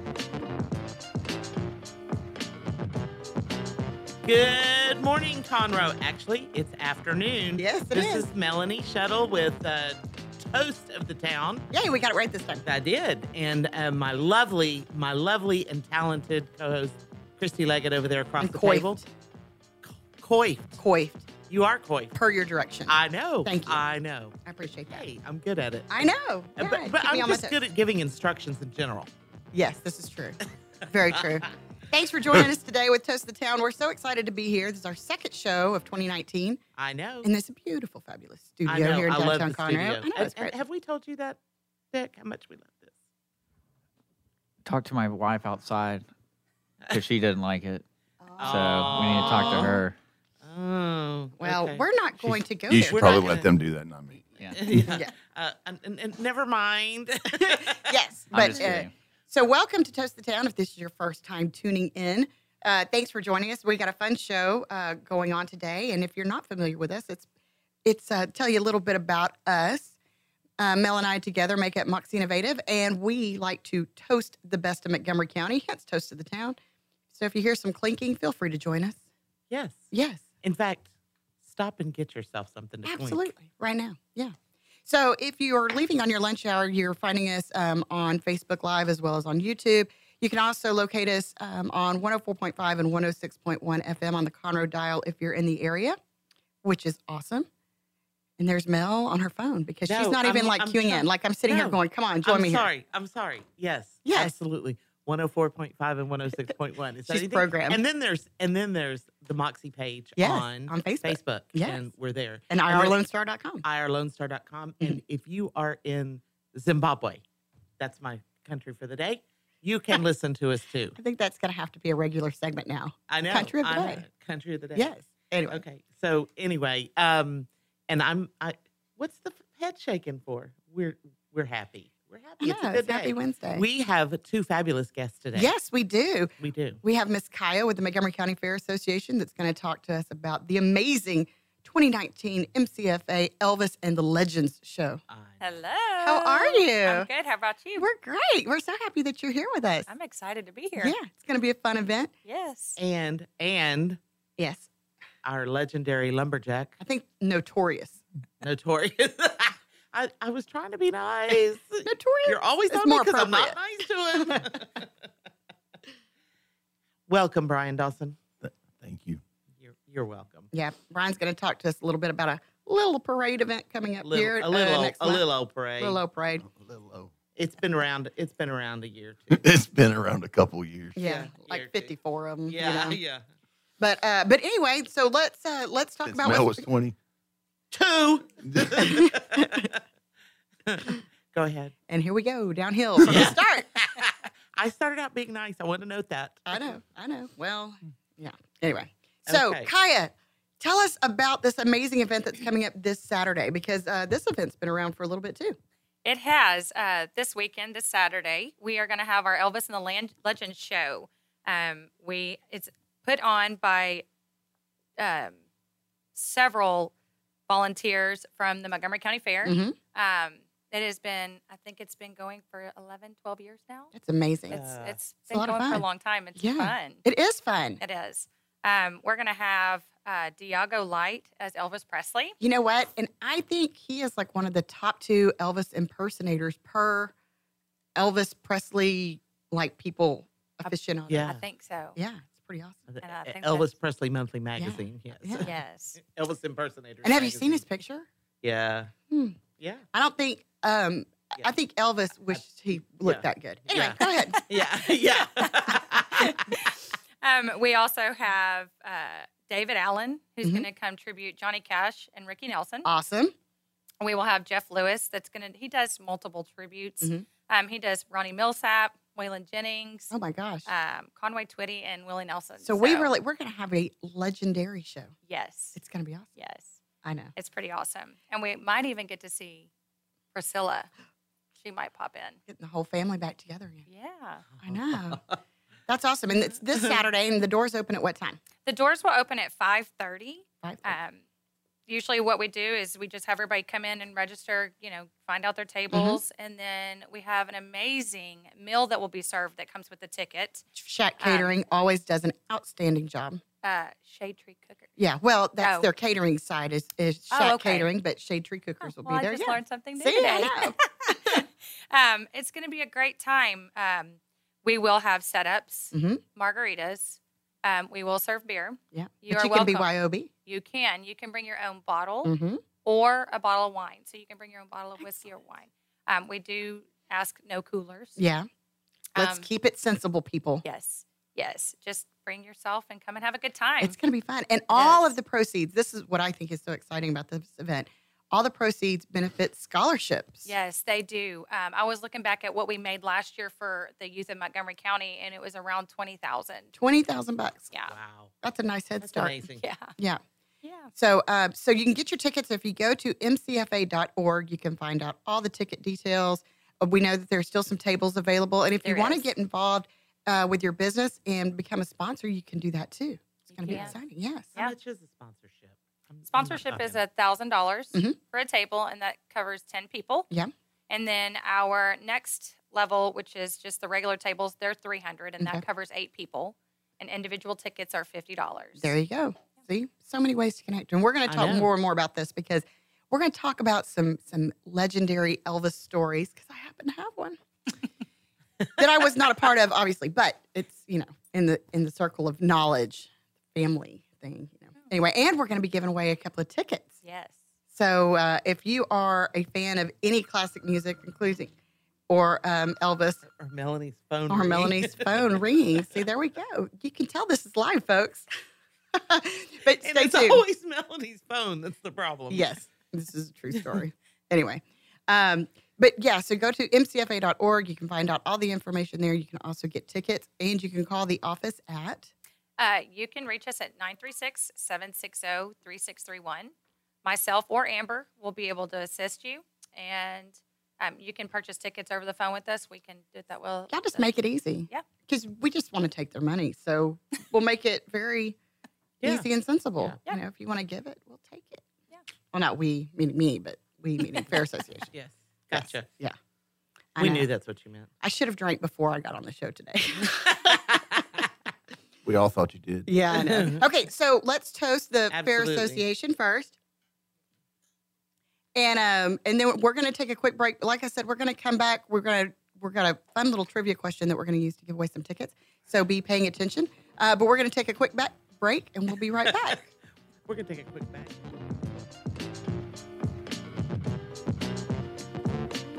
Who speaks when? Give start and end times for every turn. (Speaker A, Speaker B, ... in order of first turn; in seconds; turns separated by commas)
Speaker A: 4.2-11.7, Speaker B: 7.5-8.3, Speaker B: 11.7-12.6, Speaker A: 12.7-19.0, Speaker B: 18.4-19.0, Speaker A: 19.8-20.8, Speaker B: 20.8-21.3, Speaker A: 21.5-22.1, Speaker B: 22.1-23.8, Speaker A: 22.9-24.4, Speaker B: 24.4-25.0, Speaker A: 24.9-29.1, Speaker B: 25.9-27.6, Speaker B: 29.5-36.6, Speaker A: 36.8-37.3, Speaker B: 37.2-40.6, Speaker A: 38.6-41.4, Speaker A: 41.9-42.9, Speaker C: 44.6-46.1, Speaker C: 46.9-47.8, Speaker B: 48.2-49.6, Speaker A: 48.4-49.8, Speaker C: 48.4-50.0, Speaker A: 50.4-51.8, Speaker B: 51.4-53.5, Speaker D: 52.7-54.9, Speaker A: 52.9-53.5, Speaker C: 54.4-54.7, Speaker A: 54.5-58.7, Speaker B: 54.8-55.1, Speaker B: 57.4-67.3, Speaker C: 58.3-58.9, Speaker B: 67.8-70.0, Speaker B: 70.6-76.6, Speaker B: 77.1-79.0, Speaker A: 79.5-79.8, Speaker B: 79.9-80.2, Speaker A: 80.4-80.9, Speaker A: 81.4-83.3, Speaker B: 82.8-84.3, Speaker B: 84.8-96.0, Speaker B: 96.6-97.5, Speaker B: 98.4-102.7, Speaker A: 99.9-113.0, Speaker B: 104.0-104.3, Speaker B: 107.1-107.8, Speaker B: 110.2-111.8, Speaker B: 112.5-113.6, Speaker A: 113.6-117.2, Speaker A: 117.8-121.0, Speaker B: 120.9-124.0, Speaker A: 123.1-124.9, Speaker B: 124.7-125.6, Speaker A: 125.5-135.5, Speaker B: 132.4-133.6, Speaker B: 135.3-145.0, Speaker A: 136.4-136.8, Speaker A: 145.1-145.4, Speaker E: 145.4-147.9, Speaker B: 146.0-147.1, Speaker B: 147.8-149.9, Speaker E: 149.9-150.9, Speaker B: 150.8-152.1, Speaker E: 152.2-152.8, Speaker A: 152.8-154.0, Speaker B: 154.4-154.7, Speaker A: 155.2-156.8, Speaker B: 156.8-158.0, Speaker A: 158.4-164.9, Speaker B: 161.8-163.6, Speaker B: 164.1-164.4, Speaker A: 167.1-168.2, Speaker D: 168.4-169.2, Speaker A: 169.6-170.5, Speaker B: 170.5-175.2, Speaker A: 174.0-176.0, Speaker B: 175.8-176.4, Speaker D: 176.4-177.1, Speaker A: 177.3-179.4, Speaker D: 179.3-181.0, Speaker B: 180.9-183.0, Speaker A: 181.0-181.9, Speaker A: 182.5-183.2, Speaker B: 183.8-186.7, Speaker D: 186.1-186.9, Speaker A: 187.7-189.8, Speaker D: 188.4-189.0, Speaker B: 188.8-189.7, Speaker A: 190.7-191.7, Speaker B: 191.9-193.7, Speaker A: 193.1-196.6, Speaker B: 196.5-205.6, Speaker A: 199.3-199.7, Speaker E: 206.0-214.0, Speaker E: 215.0-215.3, Speaker E: 216.1-216.9, Speaker E: 217.5-223.9, Speaker B: 219.4-219.8, Speaker B: 223.9-224.6, Speaker E: 224.5-227.0, Speaker A: 224.5-225.0, Speaker B: 225.3-225.8, Speaker B: 226.3-227.8, Speaker E: 227.8-232.3, Speaker B: 232.4-237.1, Speaker B: 237.9-241.4, Speaker E: 240.6-242.0, Speaker A: 241.1-241.4, Speaker B: 241.9-242.8, Speaker A: 242.9-247.6, Speaker E: 243.0-243.7, Speaker B: 244.6-245.5, Speaker E: 245.4-246.0, Speaker B: 247.0-248.1, Speaker A: 248.4-248.9, Speaker B: 249.1-249.4, Speaker A: 249.6-249.8, Speaker B: 249.9-254.5, Speaker A: 253.0-256.4, Speaker E: 257.2-262.9, Speaker B: 262.8-263.3, Speaker E: 264.0-270.1, Speaker B: 270.1-270.7, Speaker E: 270.6-273.1, Speaker B: 272.6-275.1, Speaker E: 275.2-275.8, Speaker B: 275.7-276.3, Speaker E: 276.4-276.8, Speaker B: 277.0-277.3, Speaker E: 277.3-279.7, Speaker E: 280.3-280.9, Speaker E: 281.6-282.4, Speaker B: 282.5-283.9, Speaker E: 283.9-284.4, Speaker B: 284.6-285.2, Speaker A: 284.6-285.2, Speaker B: 285.9-288.4, Speaker E: 288.6-291.2, Speaker B: 290.6-290.9, Speaker E: 291.9-300.6, Speaker B: 295.9-296.2, Speaker B: 300.7-303.4, Speaker E: 301.2-301.6, Speaker E: 303.6-304.9, Speaker B: 305.0-311.4, Speaker E: 305.6-305.9, Speaker E: 307.3-307.9, Speaker E: 308.8-310.7, Speaker E: 311.2-319.9, Speaker B: 315.9-316.2, Speaker B: 318.9-320.3, Speaker E: 320.4-322.3, Speaker B: 322.2-322.6, Speaker E: 322.8-328.2, Speaker B: 328.2-328.5, Speaker E: 329.1-329.5, Speaker B: 329.1-330.6, Speaker E: 330.6-333.9, Speaker B: 333.8-340.5, Speaker E: 334.7-335.1, Speaker E: 340.4-346.7, Speaker B: 346.7-347.7, Speaker A: 347.9-348.3, Speaker B: 348.4-349.4, Speaker A: 349.0-349.6, Speaker E: 349.6-349.9, Speaker E: 350.6-350.9, Speaker B: 350.9-364.5, Speaker E: 358.8-359.3, Speaker E: 363.5-363.9, Speaker A: 363.7-363.9, Speaker A: 364.5-367.0, Speaker E: 366.3-370.3, Speaker E: 370.9-378.9, Speaker B: 375.4-375.6, Speaker B: 378.8-387.4, Speaker A: 381.3-381.7, Speaker B: 388.8-396.9, Speaker E: 397.0-397.4, Speaker B: 397.7-401.5, Speaker B: 402.1-403.2, Speaker A: 403.3-406.0, Speaker B: 404.3-408.3, Speaker B: 408.9-410.4, Speaker A: 409.8-412.5, Speaker B: 412.3-422.1, Speaker E: 422.6-426.5, Speaker E: 427.0-434.1, Speaker B: 433.7-438.4, Speaker A: 439.0-440.0, Speaker B: 439.0-441.6, Speaker B: 442.3-444.9, Speaker A: 444.9-445.9, Speaker B: 445.5-446.1, Speaker B: 446.9-447.3, Speaker A: 447.0-447.9, Speaker B: 448.0-450.8, Speaker A: 450.0-451.0, Speaker D: 452.0-452.9, Speaker B: 452.9-456.5, Speaker A: 453.1-453.6, Speaker A: 455.1-455.8, Speaker B: 458.5-469.7, Speaker A: 469.2-469.6, Speaker A: 470.2-471.4